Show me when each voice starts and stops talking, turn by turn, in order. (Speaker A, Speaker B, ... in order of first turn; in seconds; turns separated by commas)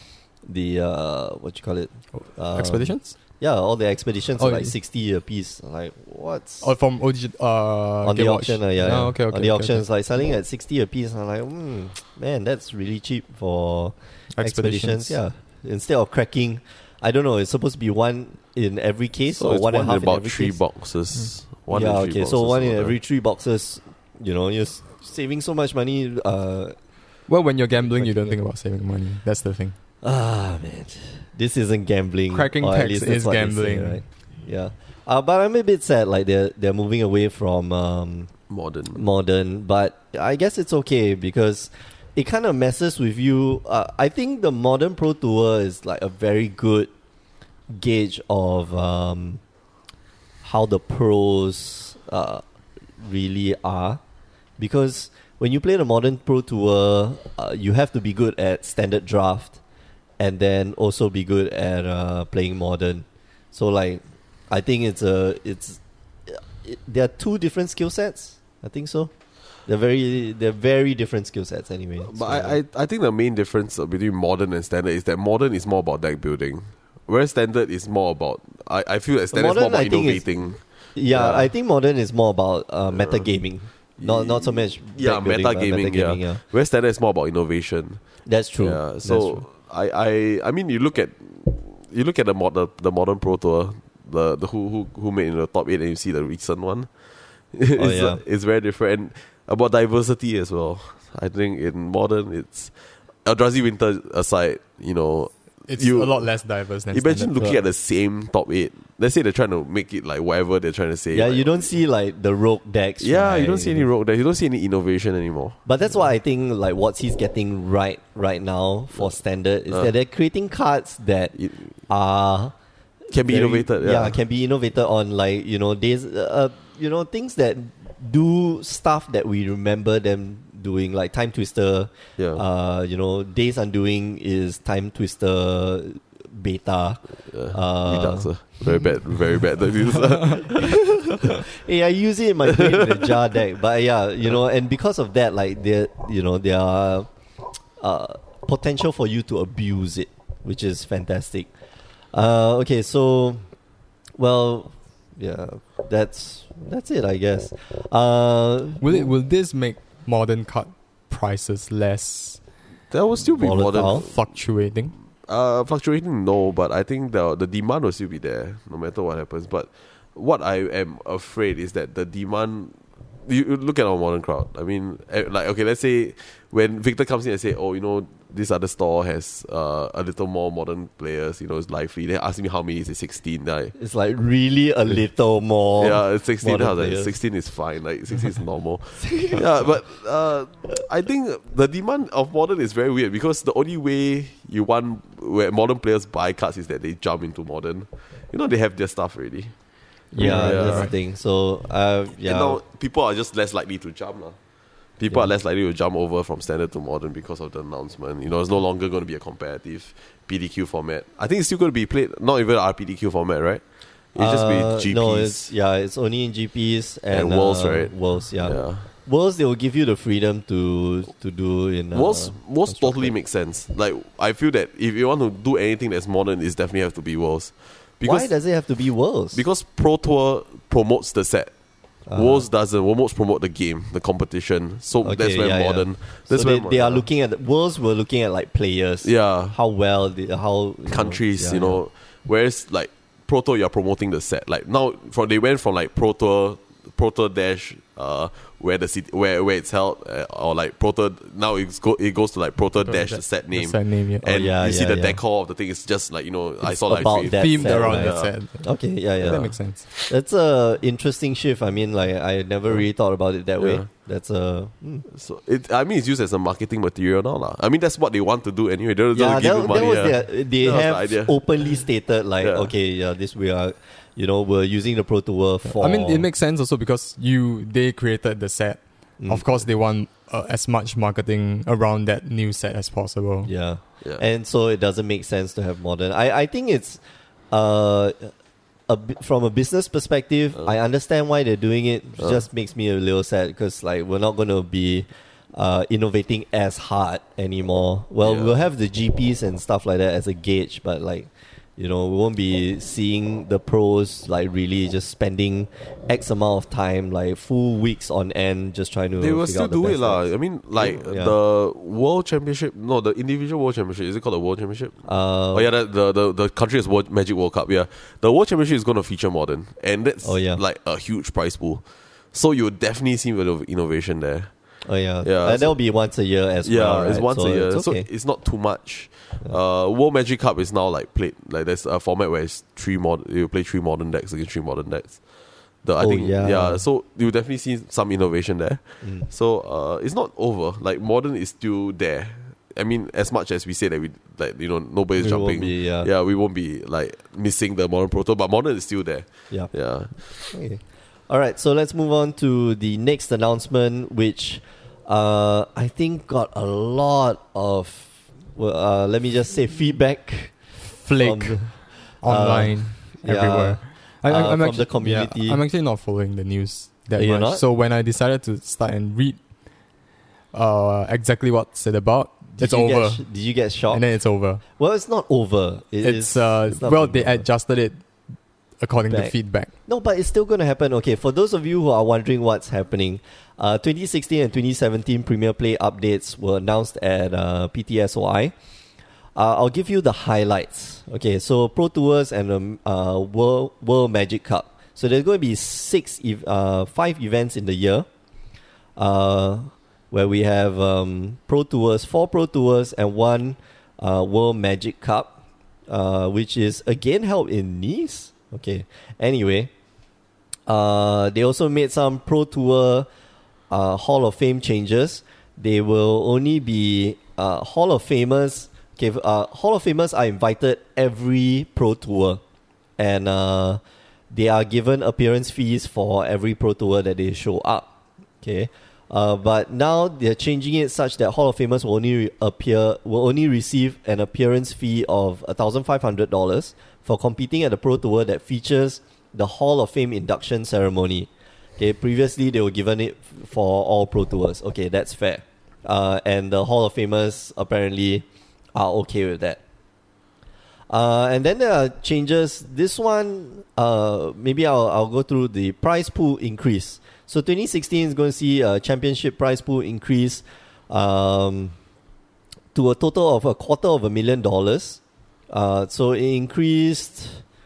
Speaker A: 0.5-6.7, Speaker B: 2.1-3.1, Speaker B: 4.4-4.7, Speaker B: 6.6-9.8, Speaker A: 8.0-20.6, Speaker B: 14.3-15.2, Speaker C: 19.3-23.0, Speaker A: 21.7-26.8, Speaker B: 27.3-29.8, Speaker A: 27.8-28.4, Speaker A: 30.0-38.3, Speaker B: 32.3-34.0, Speaker C: 38.5-39.0, Speaker A: 38.9-46.9, Speaker A: 47.7-49.4, Speaker A: 50.4-52.4, Speaker A: 53.0-54.0, Speaker A: 54.6-59.6, Speaker A: 60.2-69.1, Speaker A: 69.7-72.6, Speaker C: 72.1-81.5, Speaker A: 79.3-80.2, Speaker A: 80.9-86.4, Speaker C: 82.9-83.2, Speaker C: 84.0-88.0, Speaker A: 88.2-89.4, Speaker C: 88.6-96.9, Speaker C: 97.5-106.3, Speaker A: 97.8-98.2, Speaker B: 105.7-107.3, Speaker C: 106.9-111.7, Speaker A: 111.1-113.9, Speaker C: 113.0-115.6, Speaker A: 115.7-121.3, Speaker C: 121.4-121.7, Speaker A: 121.9-122.5, Speaker A: 123.1-138.7, Speaker C: 123.1-124.2, Speaker C: 132.2-132.4, Speaker C: 137.3-141.4, Speaker A: 140.4-147.1, Speaker C: 142.5-143.1, Speaker A: 147.8-151.5, Speaker A: 152.1-153.4, Speaker A: 154.2-159.1, Speaker B: 158.8-162.4, Speaker C: 162.9-164.1, Speaker A: 163.3-164.1, Speaker B: 163.9-164.9, Speaker C: 165.2-183.7, Speaker A: 183.8-187.1, Speaker C: 185.8-199.5, Speaker A: 189.0-189.4, Speaker A: 200.1-202.6, Speaker B: 200.2-200.9, Speaker C: 200.2-200.9, Speaker C: 202.2-204.3, Speaker C: 205.0-213.6, Speaker C: 214.1-215.5, Speaker A: 214.2-223.1, Speaker C: 217.1-218.9, Speaker C: 221.9-228.3, Speaker A: 228.0-229.4, Speaker C: 229.3-231.5, Speaker A: 232.1-232.4, Speaker C: 232.1-237.0, Speaker A: 235.0-241.8, Speaker C: 239.0-239.6, Speaker C: 240.9-258.3, Speaker B: 252.8-254.2, Speaker A: 254.2-255.2, Speaker A: 256.6-265.1, Speaker B: 257.2-258.7, Speaker C: 259.2-260.1, Speaker B: 259.2-259.8, Speaker C: 263.6-263.9, Speaker C: 265.1-271.8, Speaker A: 269.1-276.2, Speaker C: 272.4-272.7, Speaker B: 275.6-283.5, Speaker A: 279.2-279.5, Speaker A: 283.4-287.0, Speaker A: 287.5-288.3, Speaker A: 288.9-310.2, Speaker C: 298.2-298.6, Speaker C: 309.2-314.9, Speaker A: 310.8-311.4, Speaker A: 315.0-315.7, Speaker C: 315.5-324.5, Speaker A: 320.2-320.6, Speaker A: 324.8-328.1, Speaker C: 325.2-325.8, Speaker C: 326.6-335.2, Speaker C: 335.8-350.5, Speaker A: 336.0-336.8, Speaker A: 345.2-346.1, Speaker A: 350.5-360.6, Speaker B: 361.0-369.4, Speaker A: 361.2-365.6, Speaker A: 367.1-367.6, Speaker B: 370.5-373.2, Speaker A: 372.6-374.0, Speaker B: 373.9-374.6, Speaker A: 374.7-377.4, Speaker B: 376.0-378.0, Speaker B: 378.8-379.7, Speaker A: 379.1-379.3, Speaker A: 379.9-388.5, Speaker A: 389.4-398.1, Speaker A: 399.0-405.3, Speaker A: 405.9-409.7, Speaker A: 410.7-413.1, Speaker A: 413.7-422.4, Speaker A: 423.0-423.8, Speaker A: 424.3-427.9, Speaker A: 428.4-449.6, Speaker A: 450.9-461.7, Speaker A: 462.7-465.0, Speaker A: 465.5-467.4